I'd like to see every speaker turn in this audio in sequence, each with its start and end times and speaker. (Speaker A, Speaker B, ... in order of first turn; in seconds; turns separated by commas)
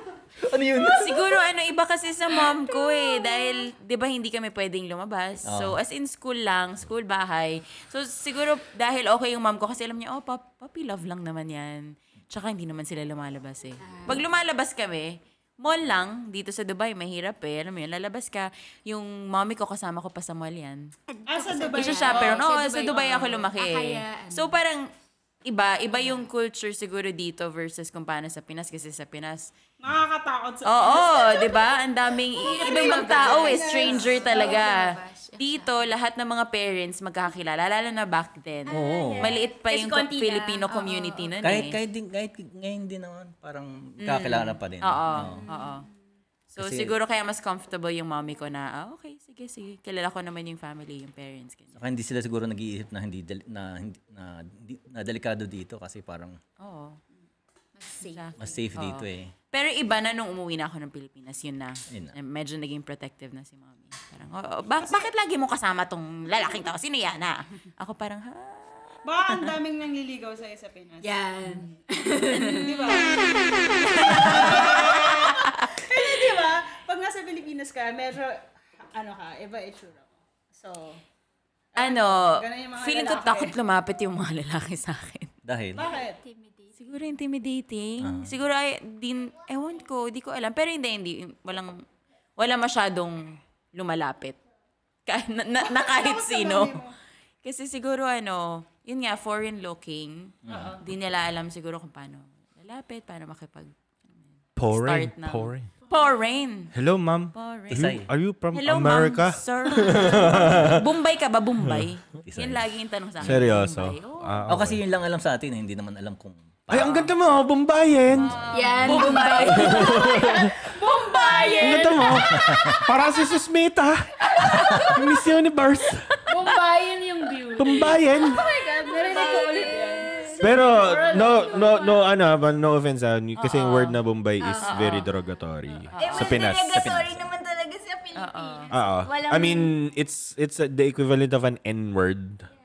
Speaker A: 0.4-1.2, Speaker B: 0.8-20.9, Speaker A: 5.5-5.8, Speaker C: 13.8-14.2, Speaker C: 21.1-24.5, Speaker D: 21.3-22.4, Speaker B: 21.7-24.8, Speaker B: 25.4-29.5, Speaker C: 26.0-26.2, Speaker D: 29.8-31.6, Speaker B: 30.6-34.8, Speaker D: 32.4-34.7, Speaker C: 32.4-35.7, Speaker B: 35.4-41.8, Speaker C: 38.7-41.3, Speaker A: 38.7-39.3, Speaker A: 41.4-45.4, Speaker B: 44.0-45.8, Speaker C: 45.2-45.9, Speaker B: 46.5-51.8, Speaker A: 46.6-46.9, Speaker A: 51.8-56.4, Speaker B: 56.6-57.0, Speaker C: 57.8-58.2, Speaker B: 58.1-69.0, Speaker A: 58.4-59.3, Speaker D: 69.0-71.1, Speaker C: 71.0-74.9, Speaker D: 72.3-81.0, Speaker B: 74.0-75.5, Speaker D: 81.7-83.5, Speaker B: 81.8-85.3, Speaker A: 85.5-85.9, Speaker D: 85.7-86.2, Speaker C: 86.2-86.7, Speaker B: 86.8-91.8, Speaker A: 88.0-88.3, Speaker B: 92.4-94.4, Speaker B: 95.1-96.8, Speaker D: 95.6-96.9, Speaker B: 97.4-106.7, Speaker A: 100.5-100.8, Speaker D: 100.5-100.8, Speaker E: 104.6-105.7, Speaker E: 106.7-110.8, Speaker B: 107.3-108.0, Speaker A: 107.7-108.1, Speaker B: 108.5-114.4, Speaker E: 111.6-111.9, Speaker A: 112.3-112.6, Speaker E: 113.2-114.8, Speaker A: 114.5-117.1, Speaker E: 116.7-118.4, Speaker A: 118.1-118.4, Speaker B: 118.2-120.3, Speaker C: 118.5-120.5, Speaker E: 119.5-120.5, Speaker D: 120.7-122.2, Speaker C: 121.1-122.1, Speaker E: 121.6-124.1, Speaker A: 122.3-122.8, Speaker B: 124.4-124.8, Speaker E: 124.9-126.1, Speaker D: 126.3-132.0, Speaker E: 127.6-128.4, Speaker C: 128.4-130.5, Speaker E: 130.4-137.0, Speaker B: 133.4-134.0, Speaker C: 134.4-134.8, Speaker B: 134.6-135.1, Speaker B: 135.9-136.4, Speaker C: 136.0-139.7, Speaker A: 136.6-137.2, Speaker B: 138.2-138.7, Speaker E: 138.7-142.4